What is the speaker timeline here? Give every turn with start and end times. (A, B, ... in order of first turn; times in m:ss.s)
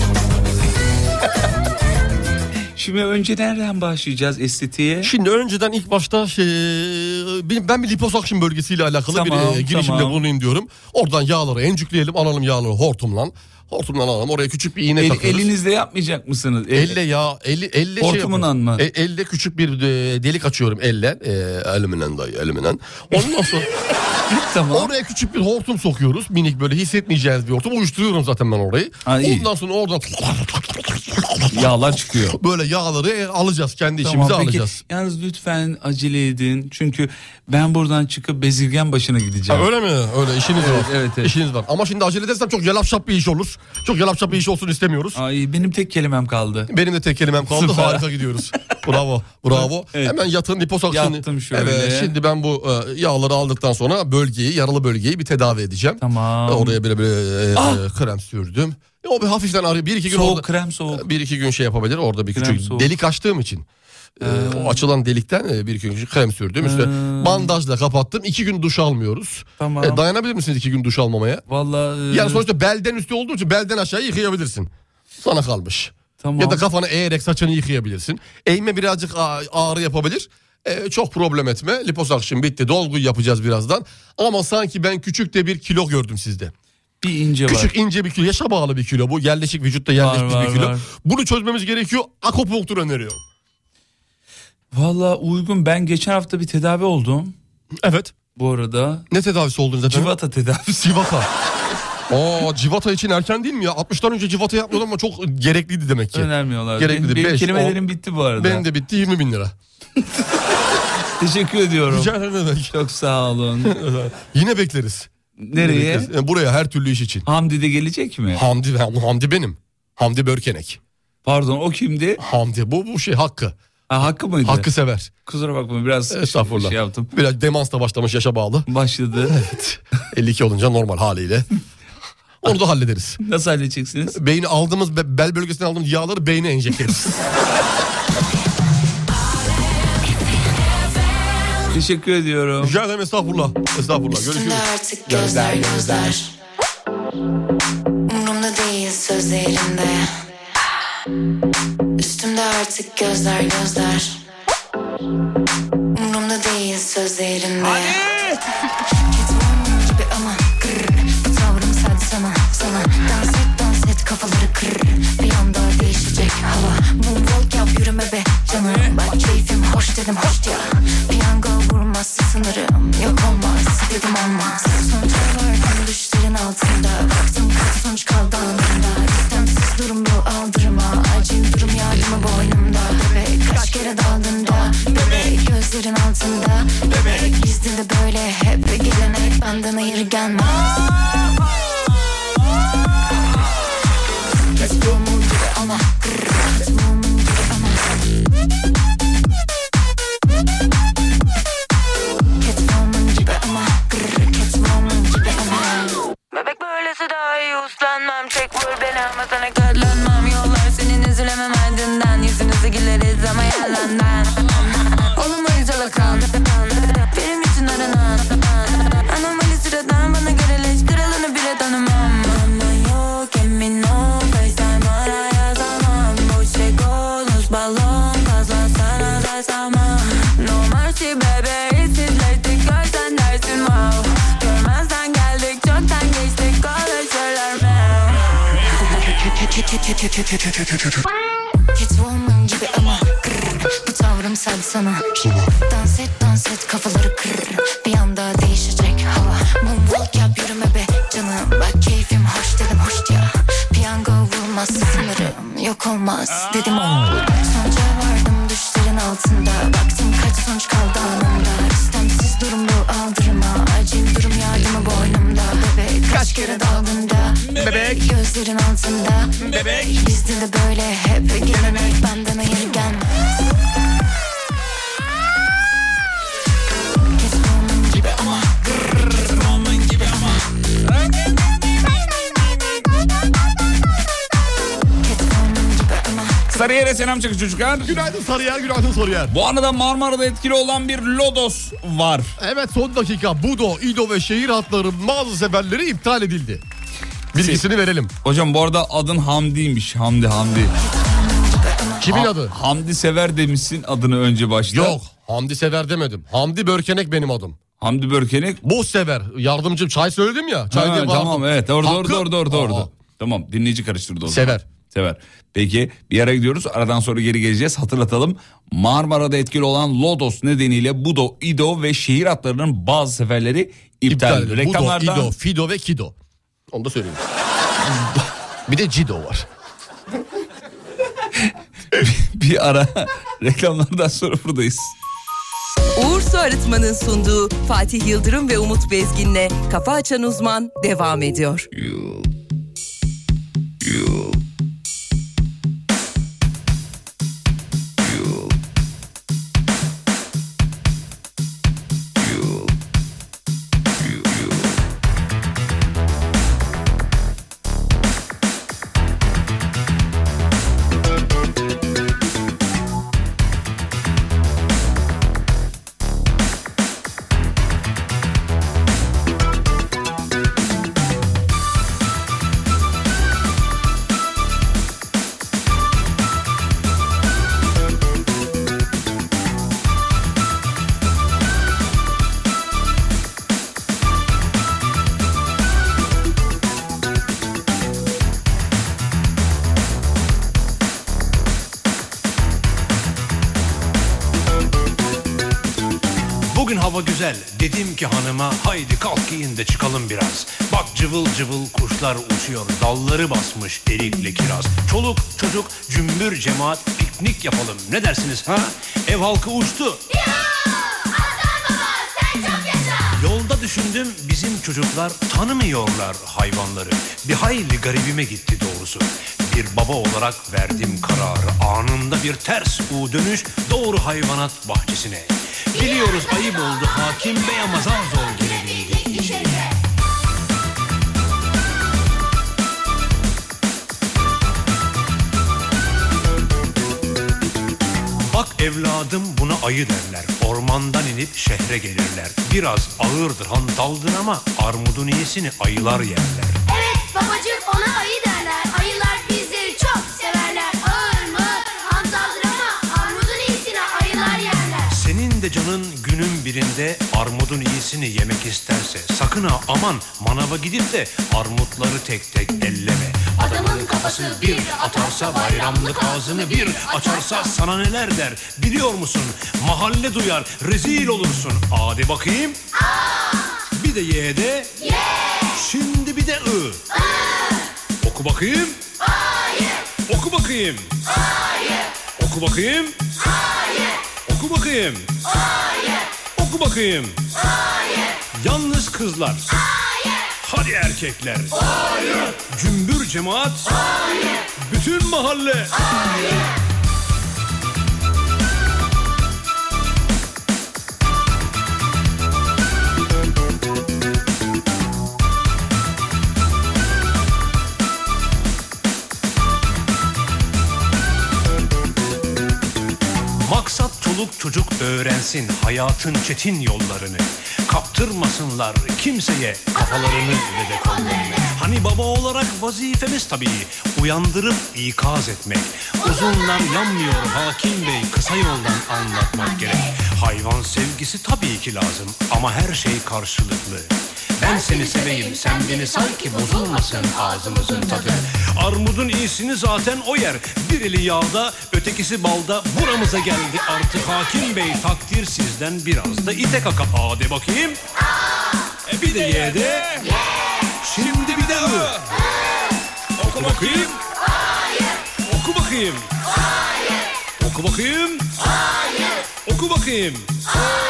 0:02.8-0:05.1 A
0:05.0-0:15.5 B
0:09.1-0:10.2 A
0:15.0-0:17.0 A
0:16.7-0:23.7 B
0:18.0-0:18.8 A
0:24.3-0:24.9 A
0:24.7-0:31.7 B
0:29.0-0:29.5 A
0:31.5-0:32.4 A
0:32.3-0:34.8 B
0:34.0-0:39.7 A
0:39.5-0:45.2 B
0:40.6-0:41.3 A
0:45.2-0:46.7 A
0:46.7-1:03.6 B
0:47.4-0:48.1 A
0:49.5-0:50.2 A
0:50.9-0:52.1 A
0:56.0-0:56.8 A
0:57.6-0:57.8 A
1:00.1-1:01.1 A
1:02.3-1:02.9 A
1:04.2-1:11.4 B
1:04.2-1:04.9 A
1:06.6-1:07.6 A
1:09.6-1:10.0 A
1:11.5-1:12.4 A
1:12.1-1:26.5 B
1:16.2-1:16.7 A
1:27.0-1:27.7 A
1:27.5-1:33.2 B
1:30.0-1:30.8 A
1:34.7-1:37.3 A
1:37.8-1:38.1 B
1:38.4-1:39.1 A
1:39.1-1:40.1 B
1:39.9-1:41.0 A
1:40.8-1:41.3 B
1:42.1-1:47.8 B
1:46.1-1:48.6 A
1:48.4-1:49.5 B
1:51.2-1:52.1 A
1:51.9-1:52.7 B
1:52.7-1:53.7 A
1:53.6-1:57.2 B
1:55.4-1:56.1 A
1:57.2-1:58.4 A
1:58.3-2:00.8 B
2:01.2-2:02.2 A
2:02.2-2:03.6 B
2:03.9-2:04.7 A
2:04.4-2:05.1 B
2:05.3-2:07.1 A
2:06.1-2:08.6 B
2:08.7-2:09.4 A
2:09.3-2:11.5 B
2:12.4-2:13.2 B
2:13.2-2:14.2 A
2:14.2-2:17.2 B
2:21.7-2:22.8 A
2:22.6-2:26.1 B
2:24.1-2:26.3 C
2:28.1-2:30.1 C
2:32.0-2:34.2 C
2:36.0-2:38.0 C
2:38.0-2:38.4 A
2:39.1-3:10.8 C
3:14.6-3:17.8 C
3:22.4-3:26.0 C
3:26.3-3:58.2 D
3:58.7-4:00.7 C
4:01.8-4:33.3 C
4:26.2-4:26.6 A
4:27.4-4:28.0 A
4:27.6-4:27.9 B
4:29.4-4:30.0 A
4:37.2-4:38.5 C
4:39.6-4:40.0 A
4:45.0-4:46.6 C
4:46.5-4:48.0 A
4:47.8-4:49.3 B
4:49.3-4:52.4 A
4:52.4-4:56.6 B
4:57.3-4:58.1 B
4:57.4-4:57.6 A
4:58.2-5:00.7 A
5:00.8-5:02.1 C
5:02.0-5:02.5 B
5:02.1-5:05.0 A
5:04.7-5:07.6 B
5:07.8-5:08.6 A
5:08.6-5:12.9 B
5:10.7-5:25.3 A
5:14.3-5:14.6 B
5:24.1-5:26.1 B
5:26.7-5:27.2 B
5:28.7-5:29.5 B
5:32.0-5:34.9 A
5:36.0-5:41.7 E
6:36.5-6:50.0 F
6:50.1-6:53.1 G
6:53.2-7:09.5 F
7:18.3-7:26.6 F
7:26.7-7:34.9 G
7:34.9-7:52.6 F
7:53.7-7:54.8 F
7:55.5-7:56.8 F
7:58.0-7:58.8 F
8:00.1-8:01.0 F
8:02.2-8:03.0 F
8:04.3-8:05.1 F
8:06.4-8:07.2 F
8:08.4-8:09.6 F
8:10.4-8:11.6 F
8:12.5-8:13.8 F
8:14.6-8:15.8 F
8:33.4-9:07.8 F
9:08.9-9:10.0 F
9:09.2-9:09.7 A
9:10.8-9:12.0 F
9:13.2-9:13.9 F
9:13.4-9:13.9 A
9:15.2-9:16.1 F
9:17.4-9:18.3 F
9:19.4-9:20.4 F